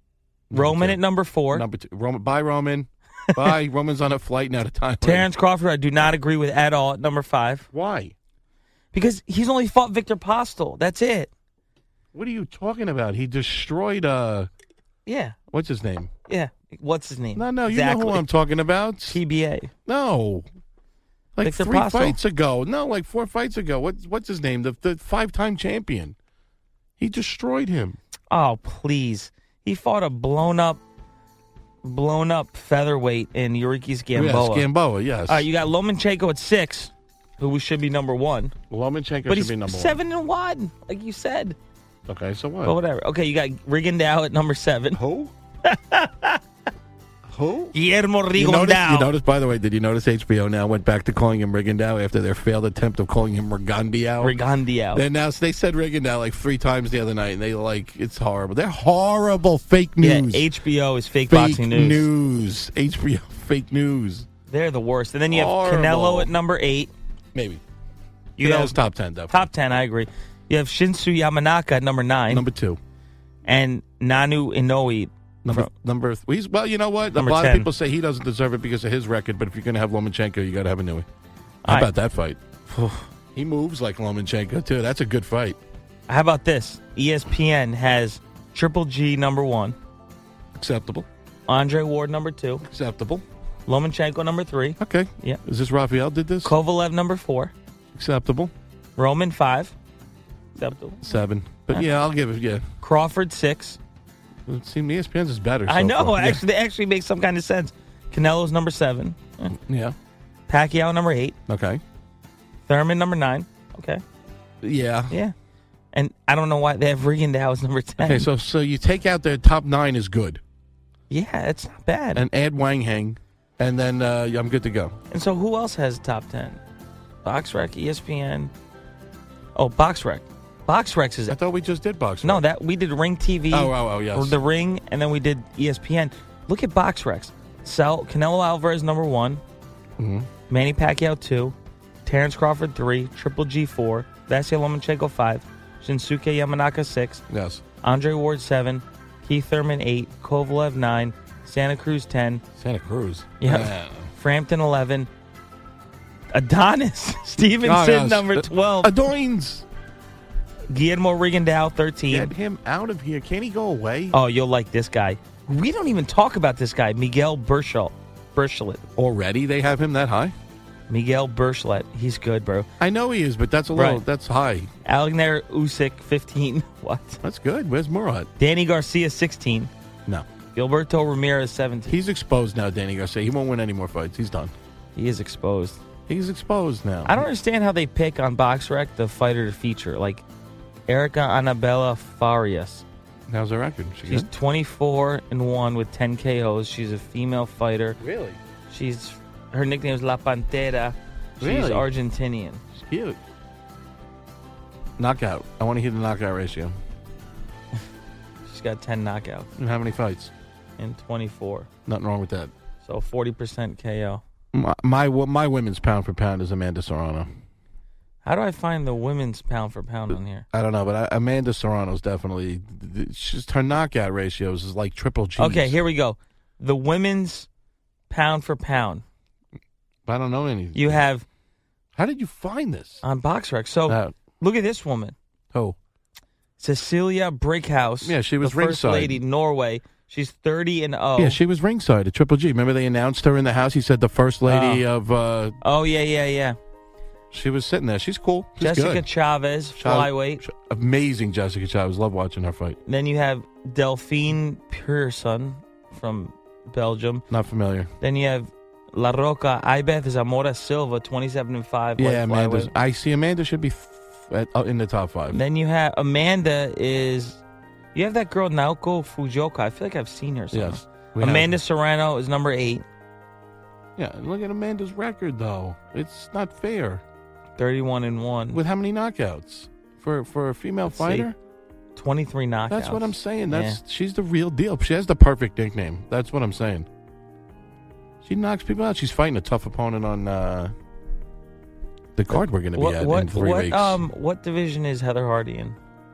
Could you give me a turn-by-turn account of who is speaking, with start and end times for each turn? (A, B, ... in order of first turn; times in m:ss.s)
0:00.5-0:05.3 A
0:00.5-0:01.6 B
0:05.0-0:07.7 B
0:07.7-0:08.1 A
0:08.9-0:11.3 B
0:12.1-0:14.5 A
0:15.0-0:15.3 B
0:15.5-0:16.1 A
0:16.3-0:18.2 B
0:17.3-0:19.2 A
0:19.1-0:19.7 B
0:19.9-0:20.5 A
0:21.4-0:26.1 A
0:21.4-0:22.2 B
0:27.0-0:28.0 A
0:28.3-0:30.8 B
0:31.8-0:34.7 B
0:34.1-0:35.5 A
0:35.3-0:38.5 B
0:38.7-0:40.0 A
0:39.3-0:41.6 B
0:42.1-0:42.8 A
0:42.6-0:45.0 B
0:44.9-0:45.3 A
0:45.6-0:46.4 B
0:47.3-0:47.7 A
0:47.7-0:49.1 B
0:48.3-0:54.4 A
0:54.2-0:55.0 B
0:54.9-1:00.5 A
1:00.0-1:02.1 B
1:01.3-1:04.3 A
1:04.5-1:06.9 B
1:05.3-1:06.3 A
1:07.3-1:07.6 A
1:08.4-1:08.8 B
1:08.4-1:09.5 A
1:09.3-1:12.4 B
1:12.3-1:12.8 A
1:13.4-1:15.7 B
1:15.4-1:21.0 A
1:17.1-1:17.7 B
1:21.6-1:21.9 B
1:21.6-1:25.6 A
1:26.1-1:29.8 B
1:30.6-1:31.1 A
1:31.5-1:32.6 B
1:32.7-1:33.2 A
1:33.6-1:35.4 B
1:34.8-1:36.6 A
1:36.4-1:37.5 B
1:37.9-1:38.5 A
1:39.0-1:39.7 B
1:40.6-1:41.9 B
1:41.0-1:42.6 A
1:42.8-1:43.8 B
1:44.4-1:46.4 A
1:45.6-1:49.6 B
1:49.6-1:50.0 A
1:50.5-1:51.4 B
1:51.5-1:51.8 A
1:52.6-1:54.0 B
1:54.6-1:55.2 A
1:55.9-1:58.3 B
1:58.0-2:00.4 A
2:01.1-2:02.2 B
2:02.1-2:05.0 A
2:05.1-2:06.6 B
2:07.2-2:08.5 B
2:09.5-2:11.4 B
2:11.3-2:12.4 A
2:12.2-2:19.4 B
2:13.5-2:14.4 A
2:20.0-2:20.3 A
2:20.5-2:27.2 B
2:27.3-2:27.6 A
2:27.8-2:32.4 B
2:32.6-2:34.1 A
2:33.4-2:35.1 B
2:36.3-2:39.0 B
2:37.6-2:39.6 A
2:40.7-2:42.3 B
2:42.1-2:44.2 A
2:44.1-2:48.8 B
2:49.0-2:50.3 A
2:50.9-2:52.7 B
2:52.8-2:54.7 A
2:53.7-2:54.0 B
2:54.8-2:57.2 B
2:57.2-2:58.3 A
2:58.4-2:59.7 B
3:00.5-3:02.0 B
3:01.9-3:04.5 A
3:04.9-3:05.8 B
3:06.1-3:07.2 A
3:07.0-3:10.2 B
3:10.9-3:12.8 B
3:13.3-3:14.3 A
3:14.0-3:18.0 B
3:18.0-3:18.4 A
3:18.7-3:22.6 B
3:21.4-3:21.9 A
3:22.7-3:23.2 A
3:25.0-3:26.8 A
3:28.4-3:29.5 B
3:29.6-3:30.3 A
3:30.8-3:31.7 B
3:31.8-3:32.5 A
3:32.8-3:34.2 B
3:34.5-3:37.3 A
3:38.2-3:40.4 B
3:40.5-3:45.8 A
3:45.4-3:47.5 B
3:48.1-3:49.0 B
3:50.0-3:51.0 A
3:50.7-3:51.2 B
3:52.0-3:53.0 A
3:53.0-3:55.1 B
3:53.9-3:54.1 A
3:56.6-4:01.4 B
3:58.0-3:59.2 A
4:01.2-4:05.6 A
4:04.4-4:04.8 B
4:05.6-4:06.6 B
4:07.3-4:09.0 A
4:08.6-4:10.4 B
4:09.8-4:12.8 A
4:12.8-4:17.2 B
4:17.3-4:17.9 A
4:18.0-4:22.7 B
4:22.0-4:25.4 A
4:25.3-4:27.4 B
4:27.9-4:32.8 B
4:30.5-4:31.6 A
4:34.0-4:37.0 A
4:37.6-4:38.6 B
4:38.5-4:41.4 A
4:40.9-4:41.3 B
4:42.0-4:43.8 B
4:42.7-4:46.9 A
4:48.2-4:50.7 A
4:52.2-4:54.0 A
4:52.3-4:55.8 B